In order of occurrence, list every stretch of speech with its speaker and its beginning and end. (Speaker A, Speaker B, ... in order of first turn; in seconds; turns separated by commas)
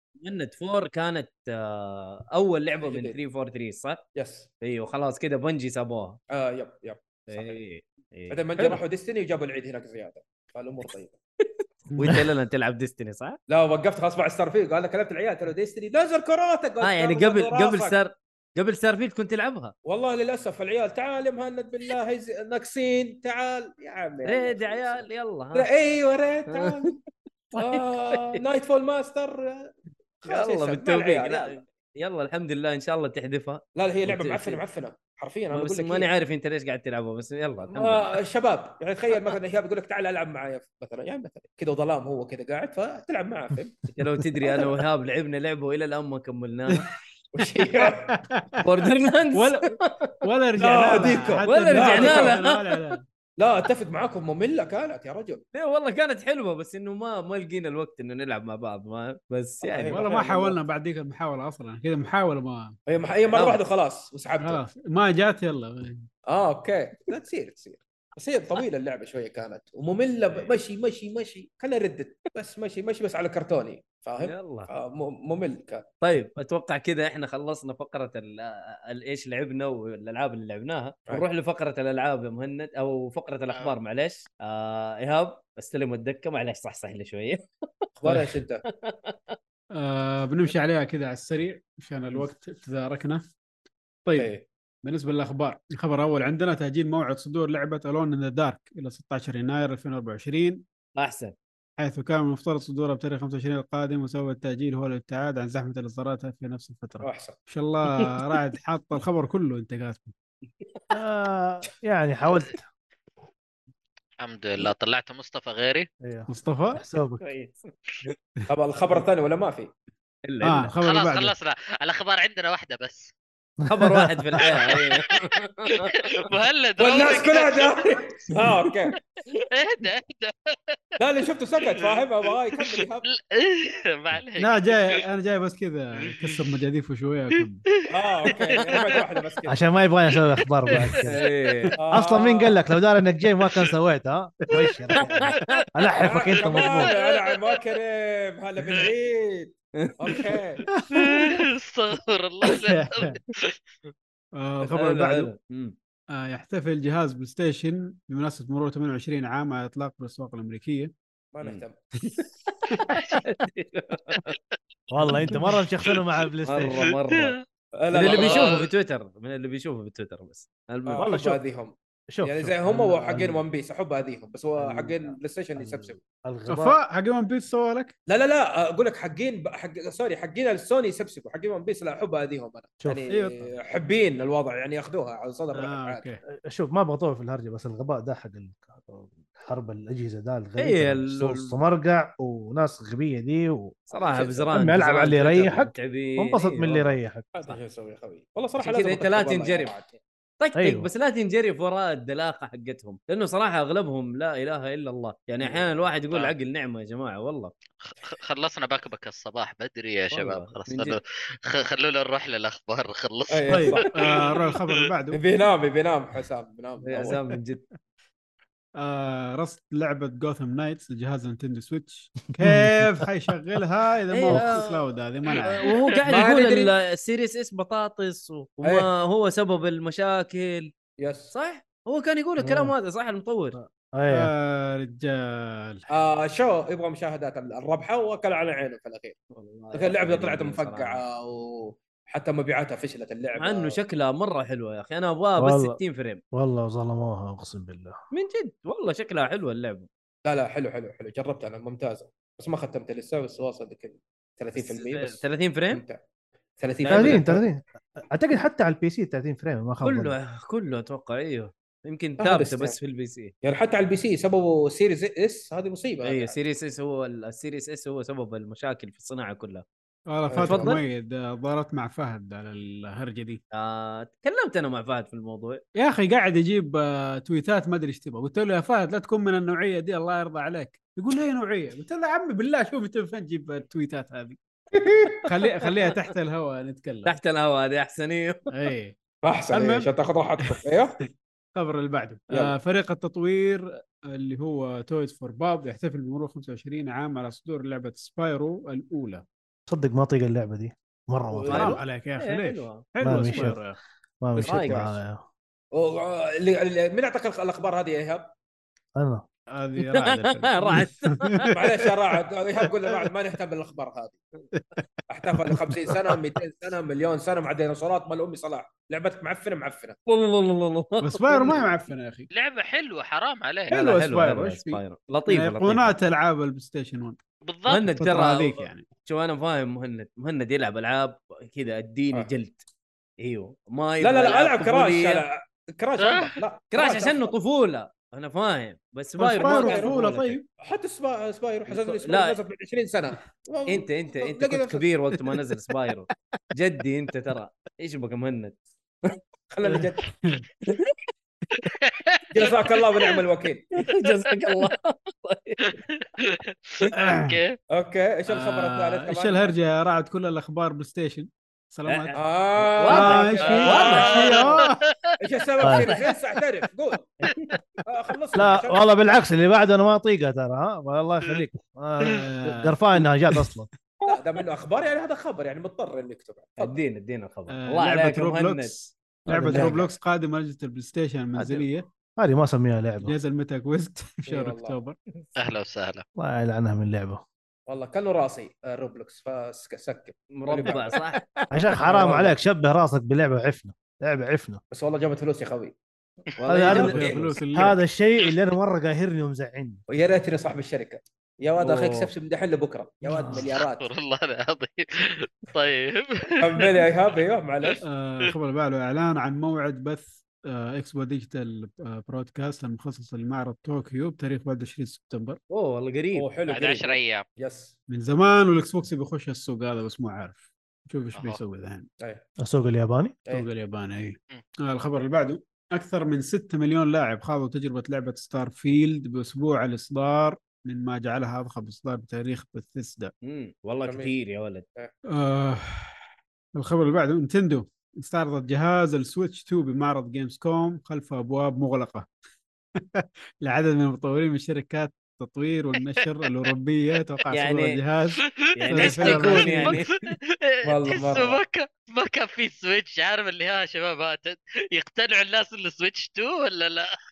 Speaker A: 0.2-4.0, Speaker B: 2.8-3.2, Speaker B: 4.1-4.5, Speaker A: 4.6-6.2, Speaker B: 6.3-7.6, Speaker A: 7.3-8.8, Speaker B: 8.3-11.2, Speaker A: 11.4-13.4, Speaker C: 11.9-12.3, Speaker B: 13.5-17.9, Speaker A: 16.8-19.7, Speaker B: 19.8-27.0, Speaker A: 24.2-25.7, Speaker A: 26.5-26.9, Speaker A: 27.5-28.4, Speaker B: 27.6-31.6, Speaker A: 30.2-34.6, Speaker B: 33.7-36.1, Speaker A: 35.5-38.1, Speaker B: 37.7-43.9, Speaker A: 43.9-46.8, Speaker B: 44.4-44.8, Speaker B: 47.3-48.1, Speaker C: 47.8-48.6, Speaker A: 48.6-50.1, Speaker C: 49.3-53.0, Speaker B: 50.6-52.4, Speaker A: 51.4-52.6, Speaker B: 53.4-55.4, Speaker A: 55.5-60.0, Speaker B: 59.6-60.6, Speaker C: 59.9-62.8, Speaker B: 62.9-64.6, Speaker A: 63.3-63.6, Speaker C: 64.4-66.1, Speaker B: 66.3-75.8, Speaker A: 74.2-74.7, Speaker A: 76.0-87.9, Speaker B: 88.0-88.6, Speaker A: 88.6-89.3, Speaker C: 89.7-93.3, Speaker C: 94.0-94.3, Speaker B: 94.2-94.4, Speaker C: 94.8-100.6, Speaker A: 100.9-101.3, Speaker C: 101.8-110.1, Speaker B: 107.0-107.4, Speaker D: 110.9-112.7, Speaker E: 114.2-115.9, Speaker D: 116.0-117.3, Speaker C: 116.3-116.8, Speaker A: 117.2-118.1, Speaker B: 118.5-119.7, Speaker A: 120.2-120.7, Speaker C: 120.4-121.3, Speaker E: 120.8-123.1, Speaker D: 123.6-124.4, Speaker A: 123.7-126.3, Speaker E: 124.4-125.3, Speaker E: 125.8-127.8, Speaker B: 126.8-128.9, Speaker E: 129.3-130.8, Speaker B: 131.0-133.0, Speaker E: 131.7-132.0, Speaker E: 132.6-135.0, Speaker C: 134.3-137.6, Speaker B: 137.9-139.6, Speaker E: 138.2-139.0, Speaker D: 139.5-141.2, Speaker E: 140.7-141.0, Speaker A: 140.9-141.8, Speaker B: 141.8-142.6, Speaker D: 141.9-146.9, Speaker A: 144.9-145.4, Speaker B: 146.0-150.6, Speaker E: 146.1-147.4, Speaker A: 149.7-150.3, Speaker C: 150.7-151.3, Speaker E: 150.9-153.9, Speaker C: 152.5-153.2, Speaker C: 154.3-155.3, Speaker A: 154.7-155.8, Speaker C: 156.1-160.9, Speaker B: 161.3-161.9, Speaker E: 162.9-163.2, Speaker A: 163.2-164.3, Speaker E: 164.1-164.6, Speaker D: 164.9-166.9, Speaker A: 166.4-167.4, Speaker E: 166.7-167.4, Speaker B: 167.8-168.7, Speaker A: 167.9-171.1, Speaker E: 168.0-168.7, Speaker B: 170.9-176.0, Speaker D: 171.0-171.4, Speaker D: 172.1-173.4, Speaker D: 174.6-176.8, Speaker C: 176.5-177.9, Speaker B: 178.1-186.0, Speaker D: 182.8-183.5, Speaker C: 183.1-183.4, Speaker C: 185.5-186.2, Speaker D: 186.5-193.8, Speaker A: 190.6-191.6, Speaker A: 193.9-196.9, Speaker B: 193.9-194.5, Speaker D: 194.5-197.3, Speaker B: 197.3-200.0, Speaker A: 198.6-199.8, Speaker A: 200.4-207.5, Speaker D: 200.6-200.9, Speaker E: 207.8-214.7, Speaker A: 210.1-211.0, Speaker B: 213.3-214.2, Speaker C: 213.5-215.2, Speaker B: 215.1-217.3, Speaker A: 216.8-217.6, Speaker C: 218.8-225.7, Speaker D: 222.4-223.1, Speaker A: 224.1-230.7, Speaker E: 225.7-226.0, Speaker B: 226.1-226.7, Speaker B: 228.6-228.9, Speaker B: 231.0-231.3, Speaker A: 231.3-233.6, Speaker D: 232.4-232.7, Speaker D: 233.5-234.3, Speaker C: 234.1-235.8, Speaker B: 235.9-239.2, Speaker A: 239.3-241.0, Speaker B: 239.7-243.8, Speaker A: 243.3-246.2, Speaker D: 245.4-245.8, Speaker D: 246.3-248.0, Speaker A: 248.1-249.9, Speaker B: 250.2-256.0, Speaker A: 254.6-255.8, Speaker B: 256.6-257.4, Speaker A: 256.8-257.3, Speaker D: 256.9-260.1, Speaker A: 259.8-263.3, Speaker B: 262.2-262.8, Speaker B: 263.4-266.4, Speaker A: 266.0-269.6, Speaker C: 270.1-273.4, Speaker B: 270.3-270.8, Speaker A: 270.4-270.8, Speaker A: 273.5-275.6, Speaker C: 275.7-284.4, Speaker B: 284.7-285.2, Speaker C: 285.2-287.2, Speaker A: 287.1-288.5, Speaker C: 288.5-289.0, Speaker B: 289.2-291.0, Speaker C: 289.5-289.9, Speaker C: 291.6-299.2, Speaker D: 299.7-301.8, Speaker A: 301.3-303.5, Speaker C: 301.5-303.8, Speaker D: 303.0-303.6, Speaker D: 304.2-305.2, Speaker A: 304.4-304.9, Speaker B: 305.7-308.3, Speaker D: 308.9-309.2, Speaker C: 309.5-311.5, Speaker A: 309.8-311.5, Speaker B: 311.5-314.2, Speaker B: 315.1-320.0, Speaker A: 320.1-321.7, Speaker C: 321.0-322.3, Speaker E: 322.3-323.7, Speaker C: 323.7-327.2, Speaker A: 323.7-325.9, Speaker E: 327.4-327.8, Speaker A: 327.7-332.6, Speaker C: 327.9-328.9, Speaker A: 333.2-335.2, Speaker B: 334.0-337.3, Speaker E: 336.0-336.3, Speaker A: 336.7-340.4, Speaker C: 339.2-340.4, Speaker B: 339.3-344.9, Speaker A: 341.7-342.4, Speaker A: 343.7-349.2, Speaker B: 349.5-350.1, Speaker C: 349.6-350.4, Speaker A: 350.7-350.9, Speaker E: 351.6-353.1, Speaker B: 352.3-353.7, Speaker A: 353.7-355.6, Speaker E: 355.6-357.6, Speaker C: 356.9-357.4, Speaker B: 357.7-359.5, Speaker C: 358.3-362.2, Speaker A: 361.9-364.4, Speaker B: 362.1-364.5, Speaker C: 362.8-364.8, Speaker E: 363.6-364.7, Speaker B: 365.2-367.1, Speaker D: 365.6-365.9, Speaker A: 365.6-366.1, Speaker A: 367.2-367.6, Speaker B: 367.9-368.8, Speaker D: 368.3-373.7, Speaker C: 372.1-373.1, Speaker B: 374.0-376.8, Speaker A: 376.6-378.7, Speaker C: 377.5-381.9, Speaker D: 379.3-379.8, Speaker A: 381.4-381.6, Speaker D: 382.2-383.1, Speaker C: 383.0-385.0, Speaker B: 384.2-384.8, Speaker E: 385.4-386.0, Speaker D: 386.2-387.2, Speaker B: 387.7-391.0, Speaker A: 390.3-391.3, Speaker D: 391.5-394.6, Speaker A: 391.8-392.3, Speaker B: 392.0-392.3, Speaker B: 394.7-395.8, Speaker A: 396.4-397.3, Speaker D: 396.5-399.8, Speaker B: 396.5-397.3, Speaker C: 396.6-397.8, Speaker B: 399.9-403.9, Speaker A: 401.6-402.1, Speaker C: 403.1-403.4, Speaker E: 403.4-406.8, Speaker B: 406.4-407.8, Speaker C: 407.8-415.4, Speaker A: 415.5-416.3, Speaker B: 416.1-417.7, Speaker E: 416.5-417.2, Speaker C: 417.9-421.9, Speaker E: 421.1-421.4, Speaker D: 422.4-423.2, Speaker C: 423.3-433.1, Speaker A: 433.2-434.6, Speaker B: 433.9-434.1, Speaker C: 435.1-436.0, Speaker C: 436.5-442.1, Speaker C: 442.9-449.8, Speaker A: 447.3-447.8, Speaker E: 448.2-456.9, Speaker A: 448.6-450.0, Speaker B: 450.6-451.4